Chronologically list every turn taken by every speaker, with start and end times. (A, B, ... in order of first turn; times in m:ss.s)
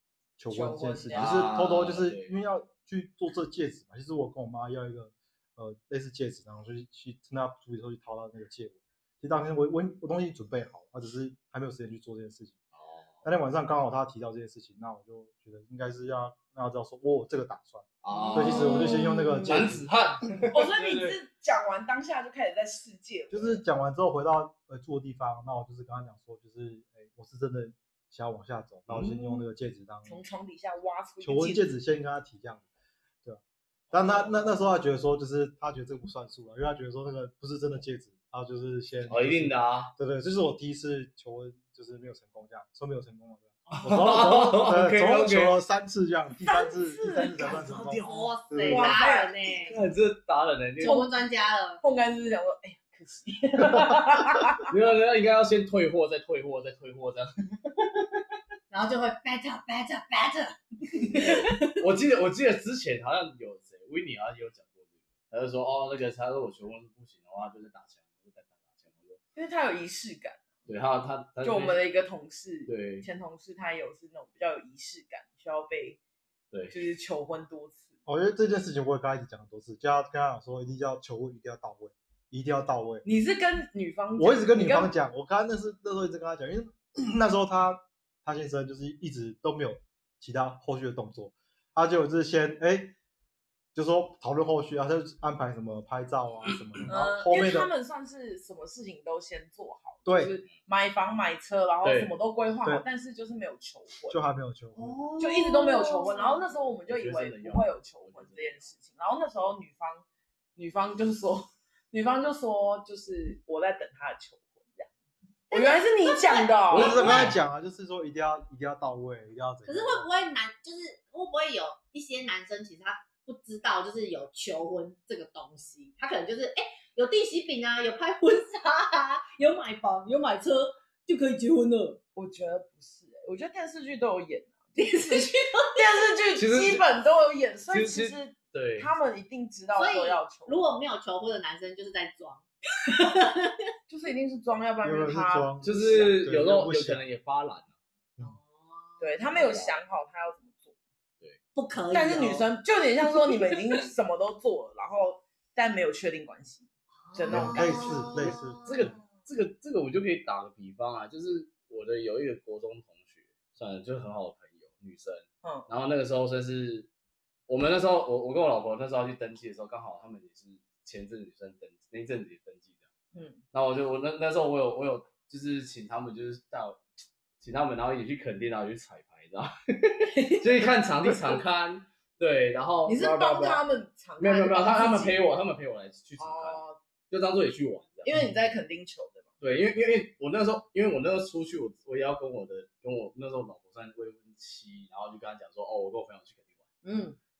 0:00.4-0:12.6 A
0:00.5-0:01.5 B
0:01.1-0:02.3 C
0:12.7-0:13.2 C
0:13.2-0:19.9 A
0:18.0-0:21.2 C
0:18.2-0:19.5 D
0:20.5-0:23.6 B
0:23.3-0:30.2 A
0:28.9-0:29.4 C
0:30.0-0:31.6 B
0:31.2-0:32.7 A
0:33.2-0:49.0 A
0:39.0-0:39.9 C
0:43.7-0:45.6 C
0:46.4-0:47.6 B
0:47.4-0:49.8 D
0:47.6-0:49.0 C
0:48.6-0:49.4 B
0:49.6-0:51.0 C
0:50.8-0:51.1 B
0:50.8-0:51.8 D
0:51.8-0:54.7 B
0:54.7-0:57.8 C
0:58.7-1:00.6 D
1:01.0-1:01.8 B
1:01.0-1:09.2 C
1:09.3-1:10.5 B
1:10.7-1:11.9 C
1:11.4-1:16.0 B
1:12.6-1:13.1 C
1:16.5-1:16.8 C
1:16.7-1:18.0 B
1:18.0-1:23.0 A
1:23.0-1:24.9 B
1:24.2-1:32.9 A
1:33.7-1:37.7 A
1:36.9-1:44.2 B
1:40.0-1:40.3 A
1:41.8-1:42.1 C
1:44.1-1:45.0 A
1:44.8-1:46.4 D
1:45.2-1:50.0 B
1:46.9-1:48.7 C
1:50.6-1:54.9 B
1:55.5-1:57.1 B
1:55.5-1:57.3 D
1:56.7-1:57.4 C
1:56.7-2:00.0 A
1:59.6-2:12.0 D
2:12.1-2:20.6 B
2:14.8-2:16.0 D
2:16.4-2:16.8 C
2:17.7-2:18.9 C
2:19.7-2:23.6 D
2:23.9-2:25.6 B
2:24.8-2:27.0 A
2:25.6-2:27.7 C
2:28.2-2:29.2 D
2:29.0-2:30.8 B
2:29.3-2:29.8 C
2:31.5-2:32.5 D
2:31.9-2:38.3 B
2:37.1-2:38.8 D
2:37.3-2:39.0 A
2:38.5-2:46.9 C
2:47.5-2:52.9 C
2:53.1-2:53.4 B
2:53.5-2:56.8 C
2:57.4-3:03.6 C
3:00.1-3:01.4 B
3:02.8-3:05.2 B
3:04.2-3:08.1 C
3:06.2-3:06.8 B
3:08.0-3:09.3 B
3:09.4-3:16.6 C
3:16.8-3:17.2 D